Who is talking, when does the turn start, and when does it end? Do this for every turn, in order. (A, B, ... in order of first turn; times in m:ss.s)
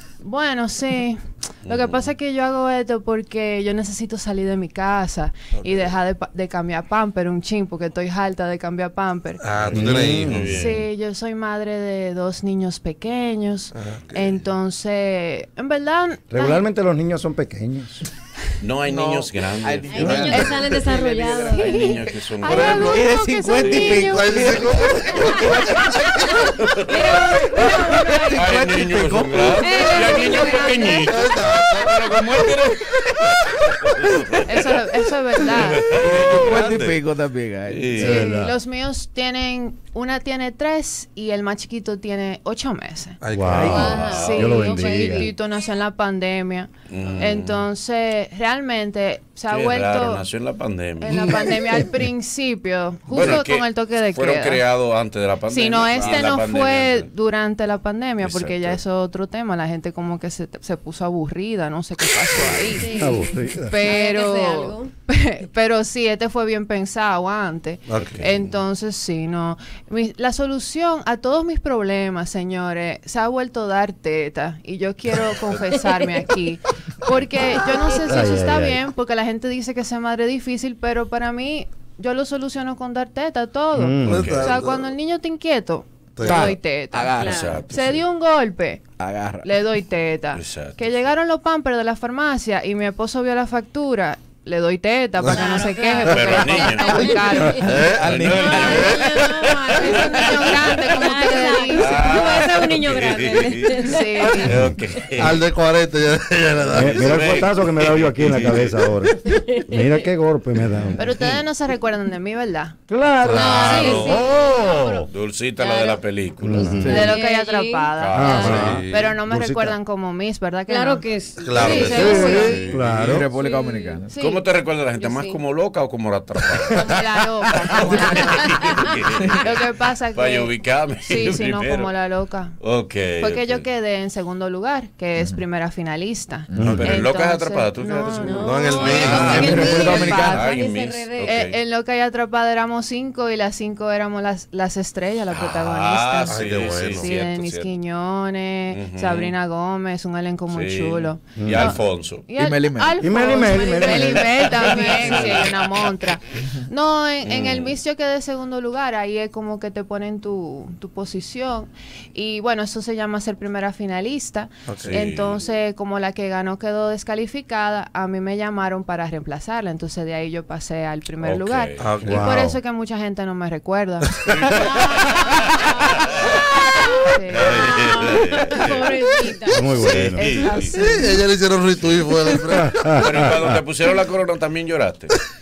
0:00.2-0:09.4 A
0:01.6-0:02.1 B
0:05.6-0:05.9 C
0:09.4-0:10.4 C
0:09.6-0:10.8 B
0:09.7-0:10.5 D
0:10.4-0:16.6 A
0:13.7-0:14.4 C
0:16.3-0:18.0 D
0:18.6-0:23.0 B
0:18.8-0:25.6 E
0:19.9-0:21.9 F
0:20.0-0:20.8 C
0:20.3-0:20.6 A
0:21.5-0:25.8 A
0:22.4-0:23.0 C
0:23.6-0:24.0 B
0:24.0-0:26.4 C
0:26.2-0:28.5 F
0:26.5-0:28.5 A
0:26.6-0:27.3 B
0:28.1-0:30.0 E
0:28.3-0:34.8 B
0:29.6-0:31.0 A
0:29.6-0:31.1 F
0:30.7-0:32.6 C
0:33.9-0:34.4 E
0:34.4-0:35.9 A
0:35.5-0:37.0 B
0:35.8-0:38.2 E
0:36.2-0:37.0 C
0:37.7-0:38.2 B
0:38.0-0:38.5 D
0:38.0-0:43.2 A
0:43.2-0:44.0 C
0:43.3-0:45.3 D
0:43.5-0:44.0 E
0:43.6-0:44.4 B
0:43.8-0:45.2 F
0:44.0-0:50.3 A
0:46.9-0:47.6 B
0:49.5-0:51.6 B
0:51.0-0:54.7 A
0:53.1-0:57.1 B
0:55.5-1:28.8 A
0:58.2-0:58.8 B
1:02.3-1:02.7 B
1:02.8-1:04.9 F
1:03.0-1:03.7 D
1:07.9-1:08.2 C
1:08.0-1:08.5 B
1:18.0-1:18.8 D
1:23.7-1:24.3 D
1:24.1-1:24.5 B
1:24.1-1:24.8 C
1:26.2-1:26.5 C
1:26.3-1:28.0 E
1:27.2-1:27.6 F
1:27.2-1:27.9 B
1:29.0-1:29.5 E
1:29.4-1:37.6 A
1:30.4-1:30.9 B
1:35.3-1:37.7 F
1:36.1-1:40.8 B
1:37.6-1:38.1 C
1:37.7-1:38.9 E
1:38.4-1:44.5 F
1:38.7-1:39.0 C
1:39.7-1:42.2 A
1:41.8-1:45.5 B
1:43.8-1:44.7 A
1:45.2-1:47.4 C
1:46.6-1:49.2 B
1:46.7-1:51.1 D
1:49.2-1:49.8 F
1:51.0-1:52.8 A
1:52.9-1:55.1 D
1:53.2-1:54.3 C
1:53.3-1:58.6 F
1:55.1-1:56.7 B
1:56.4-1:57.1 D
1:56.6-1:57.0 C
1:56.8-1:57.2 E
1:56.8-2:01.0 A
1:58.0-1:58.8 B
1:58.1-1:59.8 D
1:58.5-1:59.1 C
2:00.7-2:02.7 F
2:01.4-2:03.3 C
2:01.6-2:01.8 B
2:01.6-2:02.8 A
2:01.9-2:03.3 D
2:03.0-2:04.1 E
2:03.4-2:03.8 F
2:03.4-2:04.5 A
2:04.2-2:07.0 B
2:05.0-2:05.4 F
2:06.8-2:12.6 A
2:07.7-2:09.6 B
2:08.4-2:08.8 F
2:10.1-2:11.9 B
2:12.6-2:13.6 B
2:13.2-2:20.6 A
2:16.5-2:16.8 E
2:16.6-2:16.9 D
2:16.6-2:17.0 C
2:16.6-2:21.6 B
2:18.2-2:21.4 F
2:18.4-2:19.9 C
2:19.1-2:20.4 E
2:19.3-2:19.8 D
2:21.2-2:57.9 A
2:25.3-2:27.7 B
2:26.3-2:27.1 C
2:28.7-2:29.3 B
2:30.5-2:32.3 B
2:31.4-2:31.8 D
2:32.4-2:33.1 E
2:33.0-2:34.7 D
2:33.3-2:33.7 F
2:34.4-2:35.4 B
2:34.6-2:35.4 E
2:37.2-2:37.7 B
2:44.7-2:45.1 C
2:44.8-2:45.4 B
2:51.2-2:52.0 B
2:51.8-2:52.3 C
2:52.0-2:52.6 D
2:54.2-2:56.7 B
2:54.6-3:00.6 F
2:57.3-2:59.0 B
2:59.5-3:00.9 D
2:59.8-3:00.8 B
3:00.2-3:01.0 A
3:00.6-3:03.1 C
3:02.5-3:03.6 D
3:02.9-3:05.2 B